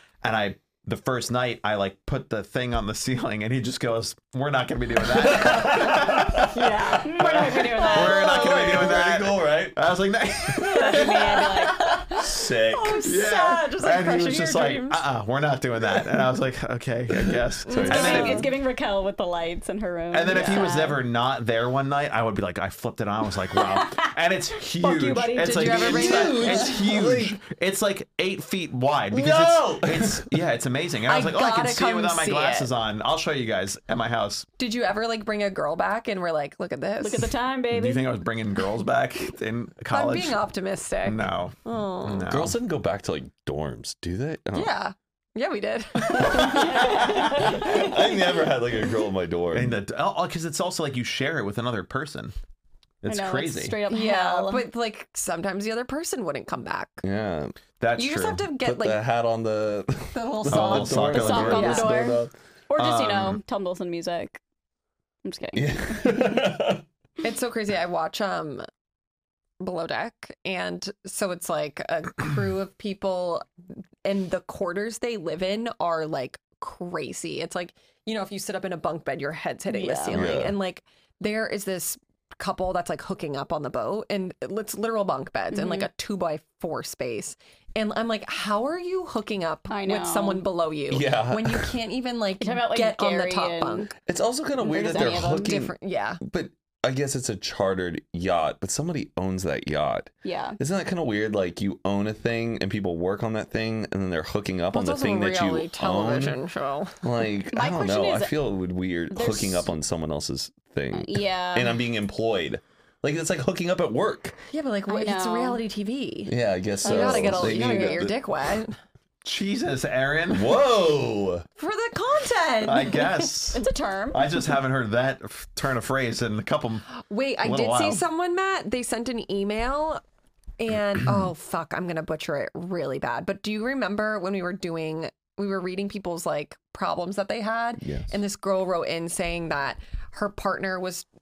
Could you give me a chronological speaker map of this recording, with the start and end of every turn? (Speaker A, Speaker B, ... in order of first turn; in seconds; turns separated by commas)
Speaker A: 0.2-11.7, Speaker B: 5.1-6.6, Speaker C: 6.5-7.1, Speaker D: 6.6-8.9, Speaker B: 7.9-9.8, Speaker C: 10.6-15.0, Speaker D: 10.6-12.0, Speaker B: 12.2-13.0, Speaker A: 13.0-18.5, Speaker B: 17.1-18.5, Speaker C: 17.7-18.5, Speaker D: 17.9-21.0, Speaker A: 20.1-34.5, Speaker C: 20.3-20.7, Speaker D: 23.5-24.1, Speaker D: 24.6-25.9, Speaker C: 25.4-26.7, Speaker B: 25.8-27.4, Speaker B: 29.1-30.3, Speaker C: 31.1-32.7, Speaker C: 34.6-37.3, Speaker D: 37.0-38.1, Speaker A: 37.7-40.4, Speaker C: 39.9-42.3, Speaker A: 41.0-42.5, Speaker B: 42.3-44.7, Speaker C: 44.5-48.0, Speaker B: 46.1-49.8, Speaker A: 46.2-47.5, Speaker D: 46.4-47.8, Speaker A: 49.5-52.3, Speaker A: 53.0-53.8, Speaker D: 53.0-54.7, Speaker C: 53.9-57.0, Speaker B: 57.0-57.5, Speaker A: 57.8-58.5, Speaker C: 58.0-59.0, Speaker B: 58.6-62.3, Speaker C: 60.1-62.0, Speaker A: 60.5-61.9, Speaker D: 61.1-64.4, Speaker A: 62.8-63.4, Speaker D: 65.2-66.5, Speaker B: 65.5-66.8, Speaker C: 67.2-68.7, Speaker C: 69.6-73.5, Speaker C: 74.0-93.9, Speaker D: 79.7-80.2, Speaker B: 80.1-80.6, Speaker D: 85.5-85.9, Speaker D: 89.7-90.5, Speaker B: 90.9-91.7, Speaker D: 92.4-93.9, Speaker B: 94.0-106.4, Speaker D: 94.6-95.6, Speaker C: 94.7-96.2, Speaker D: 100.2-100.6, Speaker C: 104.7-107.0, Speaker B: 107.0-114.4, Speaker D: 107.5-108.3, Speaker D: 109.1-109.7, Speaker D: 110.9-111.8, Speaker C: 114.5-118.8, Speaker D: 114.9-115.6, Speaker B: 116.3-118.2, Speaker D: 116.8-118.0, Speaker A: 119.2-120.5, Speaker B: 120.3-121.4, Speaker C: 121.6-123.3, Speaker A: 122.6-126.9, Speaker D: 123.5-124.3, Speaker C: 126.9-130.0, Speaker A: 127.4-128.0, Speaker C: 130.6-141.1, Speaker B: 137.8-138.1